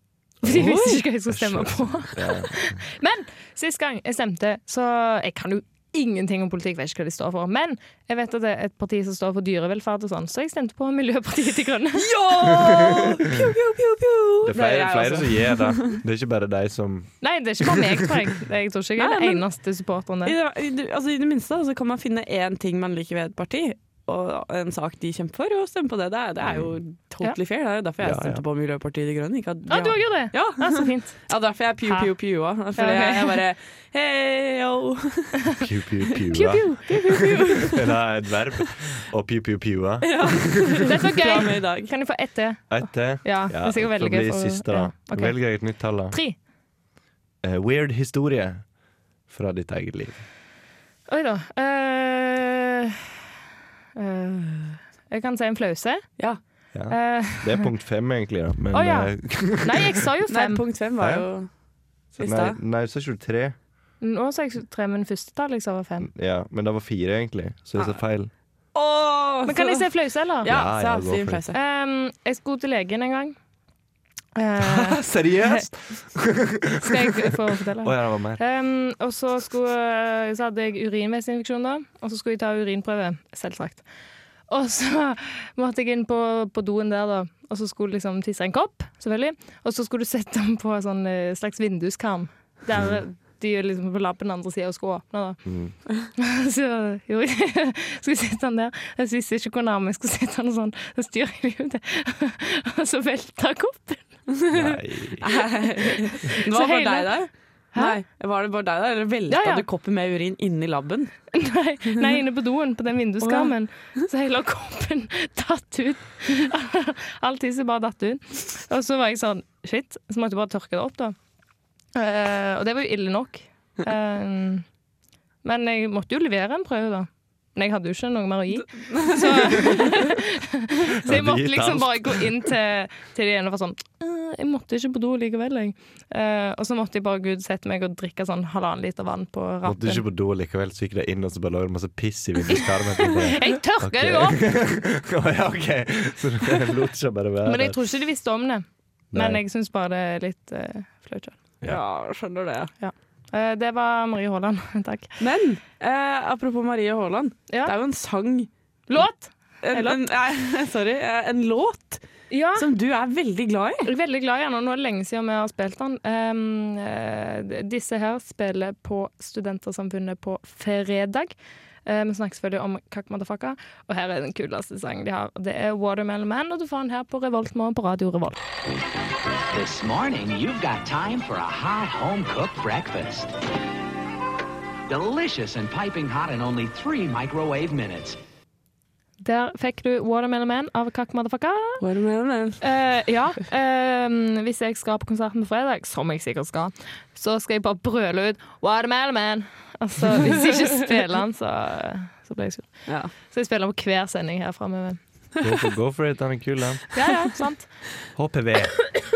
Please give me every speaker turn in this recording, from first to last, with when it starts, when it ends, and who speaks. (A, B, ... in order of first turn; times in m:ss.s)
0:00.4-0:00.7 A
0:00.4-0:12.1 B
0:00.5-0:01.0 C
0:01.3-0:02.8 A
0:12.0-0:16.0 C
0:12.7-0:13.1 A
0:14.4-0:17.1 A
0:17.2-0:20.3 B
0:19.0-0:19.4 C
0:20.2-0:35.4 C
0:26.4-0:26.7 A
0:28.0-0:28.4 A
0:29.7-0:31.2 B
0:32.8-0:33.4 B
0:35.6-0:40.5 A
0:36.3-0:37.0 B
0:36.8-0:37.9 C
0:40.0-0:41.9 C
0:40.8-0:45.4 B
0:42.7-0:46.2 A
0:46.1-0:46.4 B
0:47.4-0:48.6 A
0:49.3-0:50.2 A
0:51.1-0:53.1 B
0:54.0-0:56.1 B
0:56.7-1:00.0 A
0:56.9-0:57.7 B
0:58.7-1:00.6 B
1:00.3-1:01.5 C
1:01.0-1:01.3 A
1:02.1-1:03.6 A
1:02.2-1:02.6 C
1:04.0-1:06.1 B
1:06.0-1:08.3 A
1:08.7-1:09.8 C
1:09.4-1:10.5 B
1:10.4-1:11.6 C
1:10.4-1:11.4 A
1:11.5-1:13.4 B
1:14.4-1:15.6 B
1:14.6-1:18.4 A
1:16.8-1:23.8 B
1:24.5-1:35.4 B
1:32.7-1:33.0 A
1:35.4-1:35.7 A
1:36.2-1:44.1 B
1:44.3-1:44.7 C
1:44.5-1:45.3 A
1:45.2-1:51.1 C
1:45.3-1:48.0 B
1:49.3-1:49.6 B
1:51.3-2:01.1 B
1:53.2-1:53.5 C
2:01.9-2:04.6 B
2:05.4-2:20.0 B
2:08.7-2:09.8 C
2:11.0-2:12.5 A
2:19.6-2:27.8 A
2:23.3-2:24.4 B
2:27.4-2:31.4 B
2:29.1-2:29.4 A
2:31.6-2:32.7 C
2:32.8-2:35.1 B
2:35.2-2:38.5 C
2:38.9-2:40.0 B
2:39.6-2:42.0 C
2:42.3-2:42.6 B
2:42.5-2:43.9 C
2:43.8-2:51.3 B
2:51.8-2:58.4 B
2:59.5-3:03.3 D
3:04.9-3:08.2 D
3:09.2-3:11.8 B
3:11.8-3:12.6 C
3:12.6-3:25.0 B
3:25.4-3:26.8 A
3:26.9-3:27.7 B
3:27.0-3:27.3 C
3:28.1-3:28.8 A